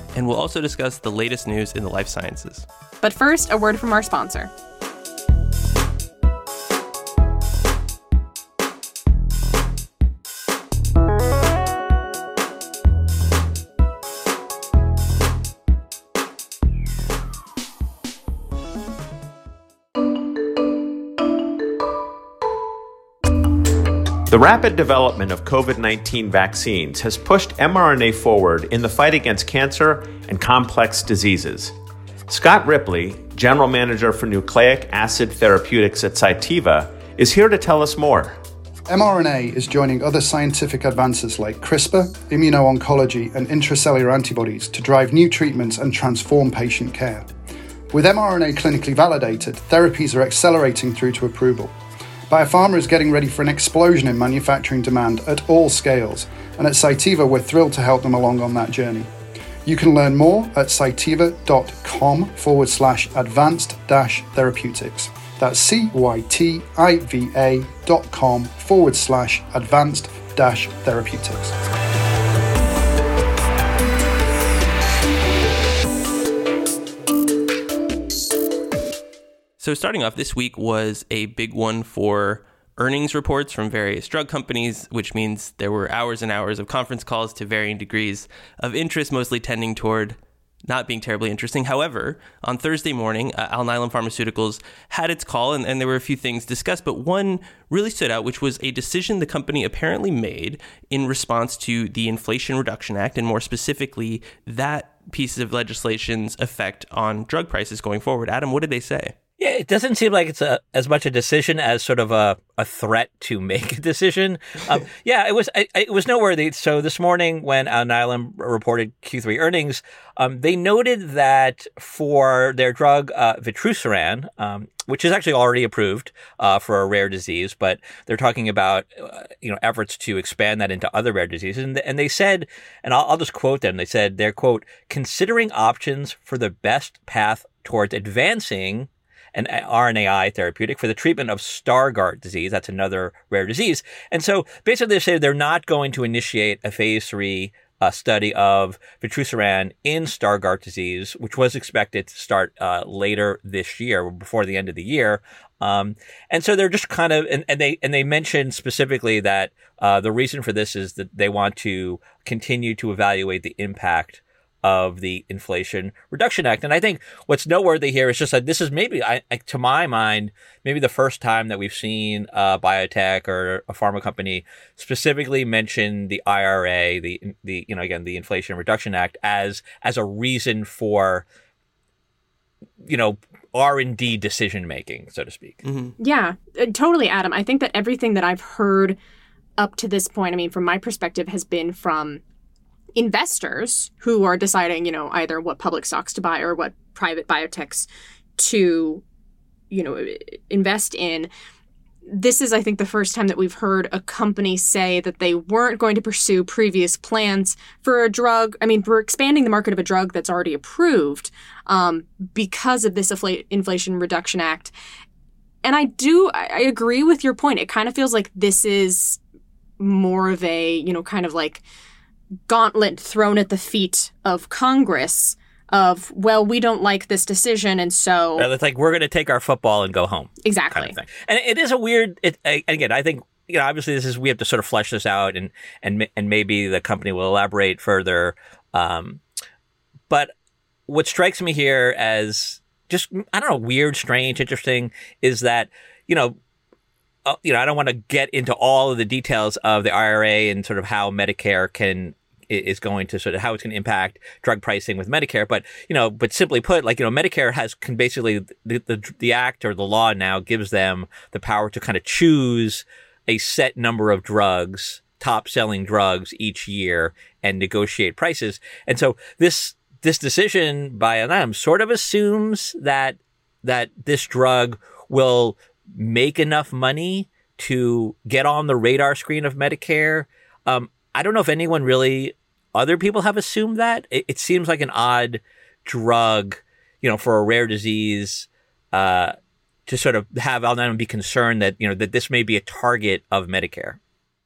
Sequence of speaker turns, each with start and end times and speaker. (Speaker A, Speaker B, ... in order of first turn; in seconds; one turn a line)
Speaker A: 0.1-2.6
Speaker B: 3.0-4.5
Speaker C: 24.3-31.7
Speaker C: 32.3-38.4
Speaker D: 38.9-47.3
Speaker D: 47.9-51.7
Speaker D: 52.3-59.1
Speaker D: 59.6-71.5
Speaker A: 79.6-109.1
Speaker E: 109.4-181.2
Speaker E: 182.8-185.6
Speaker A: 185.6-185.9
Speaker B: 186.0-189.0
Speaker B: 189.6-192.2
Speaker B: 192.9-199.0
Speaker B: 199.7-201.3
Speaker B: 202.1-214.7
Speaker B: 215.6-219.2
Speaker B: 219.8-221.6
Speaker B: 222.5-228.5
Speaker E: 228.4-239.2
Speaker B: 230.4-230.9
Speaker E: 240.9-246.4
Speaker E: 247.2-289.3
Speaker E: 289.9-294.0